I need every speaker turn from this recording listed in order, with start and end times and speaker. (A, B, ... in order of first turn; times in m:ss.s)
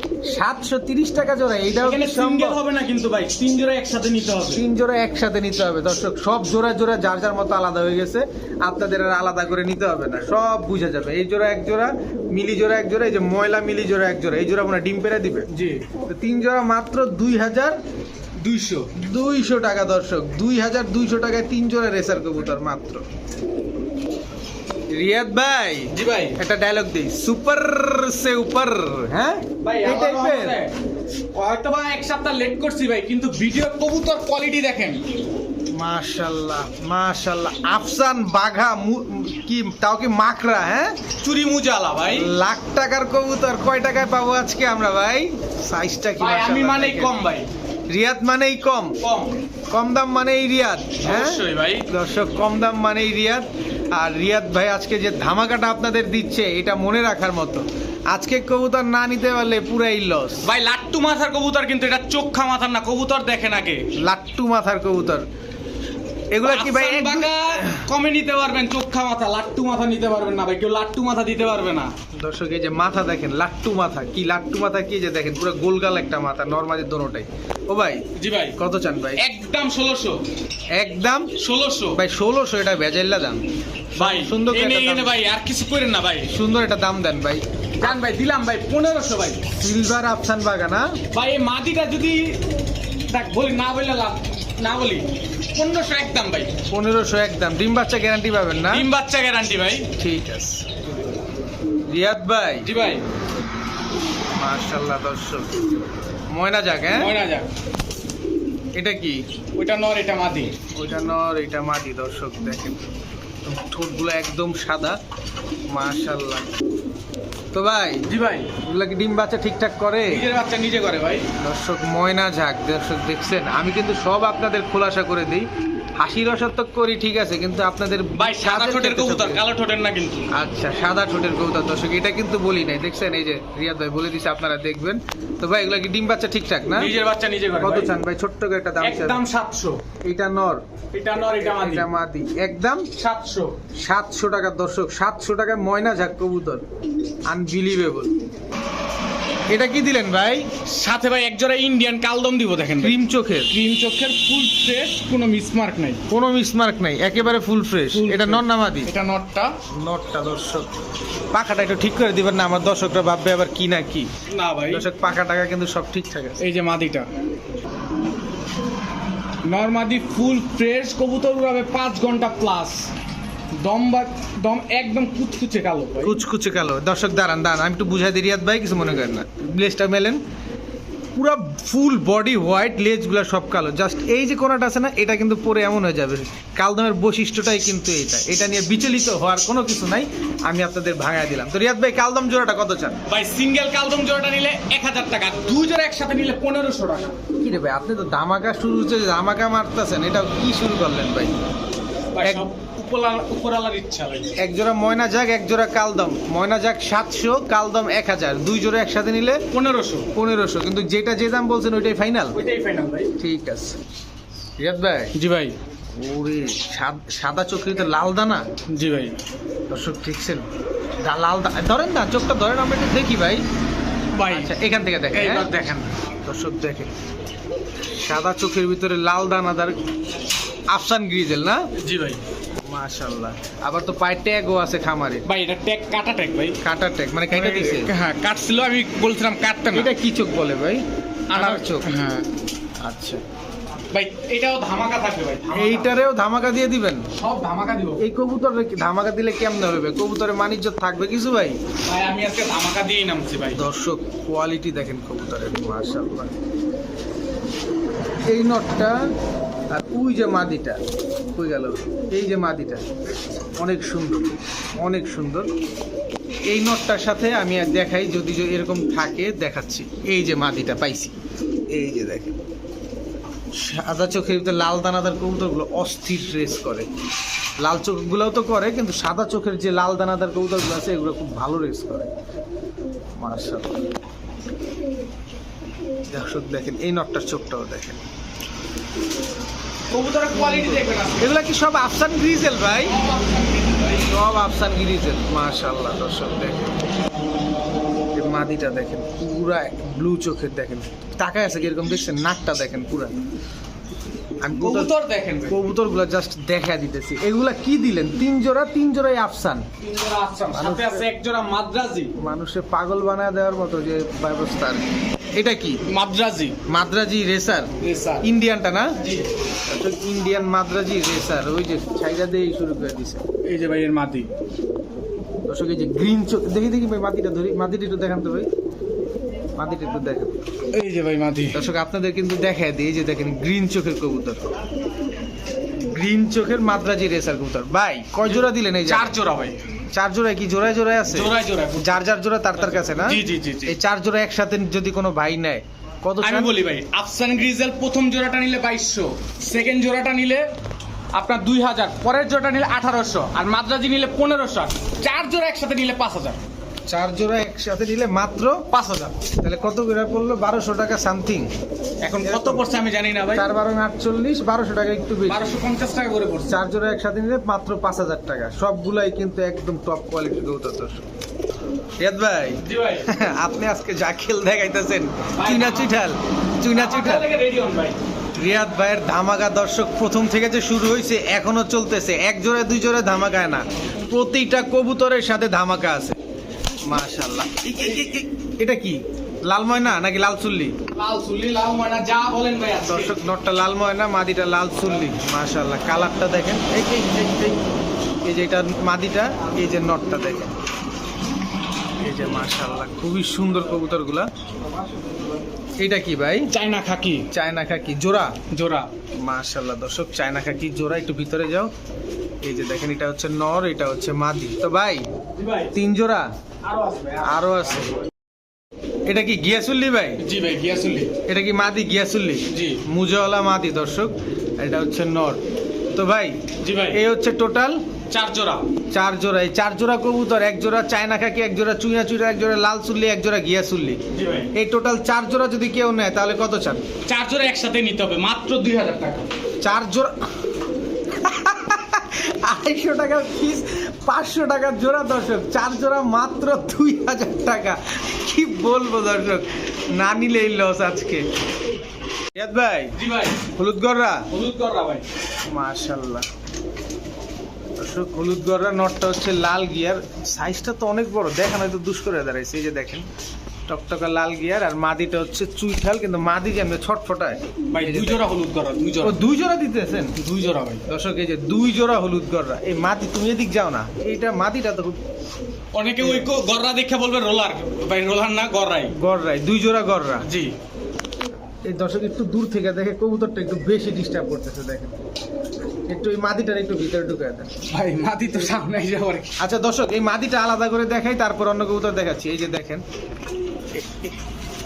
0:00.2-0:02.6 A
0:01.8-0:04.6 B
0:04.5-0:15.5 A
0:15.5-0:15.9 B
0:16.1-0:17.8 A
0:18.4-0:18.9 B
0:19.0-0:23.0 A
0:24.9-0:30.6 A
0:25.9-0:26.4 B
0:29.6-0:30.7 B
0:31.4-0:35.0 B
0:35.7-0:41.0 A
0:41.2-0:42.3 B
0:42.1-0:47.1 A
0:46.2-0:47.5 B
0:47.9-0:49.0 A
0:49.0-0:49.4 B
0:49.7-1:00.4 A
0:51.0-0:51.9 B
1:00.4-1:03.9 B
1:04.0-1:05.2 A
1:06.3-1:07.9 A
1:06.4-1:11.9 B
1:12.1-1:18.0 A
1:18.1-1:18.6 B
1:18.6-1:19.2 A
1:19.2-1:20.2 B
1:20.7-1:21.3 A
1:21.4-1:22.0 B
1:21.9-1:23.4 A
1:24.0-1:26.3 B
1:24.0-1:25.1 A
1:26.3-1:27.4 A
1:27.8-1:29.5 B
1:29.6-1:31.0 A
1:31.1-1:32.4 B
1:33.1-1:36.5 B
1:36.7-1:38.9 A
1:38.7-1:39.9 B
1:40.0-1:40.6 A
1:40.8-1:41.2 B
1:41.9-1:42.7 A
1:42.6-1:43.0 B
1:44.4-1:45.6 A
1:46.3-1:47.1 A
1:46.9-1:47.5 B
1:48.8-1:49.2 A
1:49.6-1:50.5 B
1:50.7-1:52.9 A
1:53.4-1:55.0 A
1:55.7-1:56.5 A
1:57.5-1:58.1 A
1:58.1-1:58.5 B
1:58.6-2:00.2 A
2:00.1-2:01.3 B
2:01.4-2:05.5 A
2:06.0-2:09.4 A
2:08.2-2:10.3 B
2:10.3-2:16.9 A
2:16.6-2:18.0 B
2:17.6-2:19.2 A
2:18.8-2:19.8 B
2:20.0-2:20.6 A
2:20.9-2:21.9 B
2:21.1-2:22.9 A
2:23.0-2:23.6 B
2:23.8-2:26.6 A
2:27.3-2:28.1 A
2:29.5-2:30.5 A
2:30.6-2:36.0 B
2:32.8-2:33.5 A
2:36.1-2:38.9 A
2:37.9-2:39.6 B
2:39.8-2:40.7 A
2:41.3-2:44.1 A
2:44.2-2:44.9 B
2:44.7-2:46.4 A
2:46.4-2:47.1 B
2:49.5-2:52.9 B
2:53.5-2:56.2 B
2:56.0-3:00.2 A
3:01.2-3:13.0 A
3:13.1-3:17.2 B
3:17.4-3:21.3 A
3:22.1-3:24.3 B
3:24.4-3:29.4 A
3:29.5-3:30.1 B
3:30.2-3:32.4 A
3:32.3-3:33.1 B
3:33.2-3:33.8 A
3:34.6-3:35.2 A
3:35.2-3:35.6 B
3:36.0-3:38.5 A
3:38.7-3:39.2 B
3:39.7-3:40.4 A
3:41.0-3:43.4 A
3:44.1-3:44.6 B
3:44.2-3:45.5 A
3:45.1-3:45.9 B
3:46.2-3:46.9 A
3:47.9-3:49.8 A
3:50.7-3:51.7 A
3:51.8-3:52.2 B
3:52.6-3:55.2 A
3:55.2-3:56.6 B
3:56.6-3:57.9 A
3:57.3-3:59.9 B
3:59.7-4:01.9 A
4:01.3-4:02.3 B
4:02.8-4:03.2 A
4:03.9-4:06.0 B
4:05.5-4:07.1 A
4:07.2-4:08.0 B
4:08.0-4:11.6 A
4:11.8-4:13.6 B
4:13.5-4:16.3 A
4:18.2-4:19.1 A
4:19.7-4:20.8 A
4:21.4-4:22.8 A
4:23.6-4:25.5 A
4:26.5-4:31.2 A
4:31.7-4:32.3 A
4:33.5-4:36.9 A
4:37.6-4:42.1 A
4:43.2-4:43.8 A
4:46.1-4:48.0 A
4:49.9-4:51.3 B
4:51.2-4:53.0 A
4:52.8-4:54.1 B
4:54.0-4:56.8 A
4:58.2-5:03.2 A
5:04.4-5:04.9 A
5:04.5-5:05.6 B
5:05.5-5:09.7 A
5:09.8-5:12.1 B
5:10.5-5:11.1 A
5:12.2-5:15.8 A
5:15.8-5:16.6 B
5:16.7-5:19.0 A
5:17.8-5:18.3 B
5:19.0-5:19.3 B
5:19.7-5:23.2 A
5:23.4-5:24.3 B
5:25.5-5:28.5 A
5:29.6-5:30.3 A
5:30.7-5:31.7 B
5:31.5-5:34.4 A
5:35.9-5:39.2 A
5:38.2-5:39.6 B
5:39.9-5:46.6 A
5:41.0-5:43.8 B
5:46.2-5:50.5 B
5:51.1-5:56.4 B
5:56.9-5:58.7 A
5:58.7-5:59.2 B
5:59.4-6:01.5 A
6:02.0-6:03.5 B
6:02.2-6:02.6 A
6:03.3-6:05.6 A
6:05.3-6:06.6 B
6:06.5-6:11.1 A
6:12.0-6:17.3 A
6:12.6-6:13.1 B
6:15.4-6:16.0 B
6:16.7-6:18.0 B
6:18.4-6:26.2 A
6:26.8-6:30.8 A
6:30.9-6:33.2 B
6:32.8-6:37.6 A
6:38.2-6:40.5 A
6:42.0-6:44.3 A
6:45.8-6:46.5 A
6:46.5-6:47.3 B
6:47.3-6:48.4 A
6:48.5-6:48.9 B
6:49.2-6:51.7 A
6:52.4-6:55.1 A
6:55.3-6:55.8 B
6:55.7-6:56.3 A
6:56.6-6:58.0 B
6:57.2-6:58.0 A
6:59.0-7:00.2 A
7:00.2-7:01.2 B
7:01.2-7:05.4 A
7:02.5-7:02.8 B
7:05.9-7:07.8 A
7:06.6-7:07.0 B
7:08.1-7:08.7 B
7:08.9-7:14.0 A
7:14.1-7:14.5 B
7:14.5-7:16.8 A
7:17.0-7:19.3 B
7:19.6-7:20.1 A
7:21.1-7:31.2 A
7:32.3-7:33.0 A
7:33.0-7:33.4 B
7:33.5-7:34.2 A
7:34.3-7:35.0 B
7:35.5-7:36.2 A
7:37.8-7:43.1 A
7:43.7-7:48.2 A
7:47.7-7:49.2 B
7:49.0-7:50.2 A
7:50.2-7:50.8 B
7:50.8-7:55.0 A
7:55.7-7:59.0 B
7:56.0-7:56.3 A
7:58.9-8:00.3 A
8:00.2-8:00.6 B
8:01.6-8:05.0 A
8:05.9-8:07.5 A
8:07.7-8:09.4 B
8:09.4-8:12.8 A
8:13.8-8:14.1 A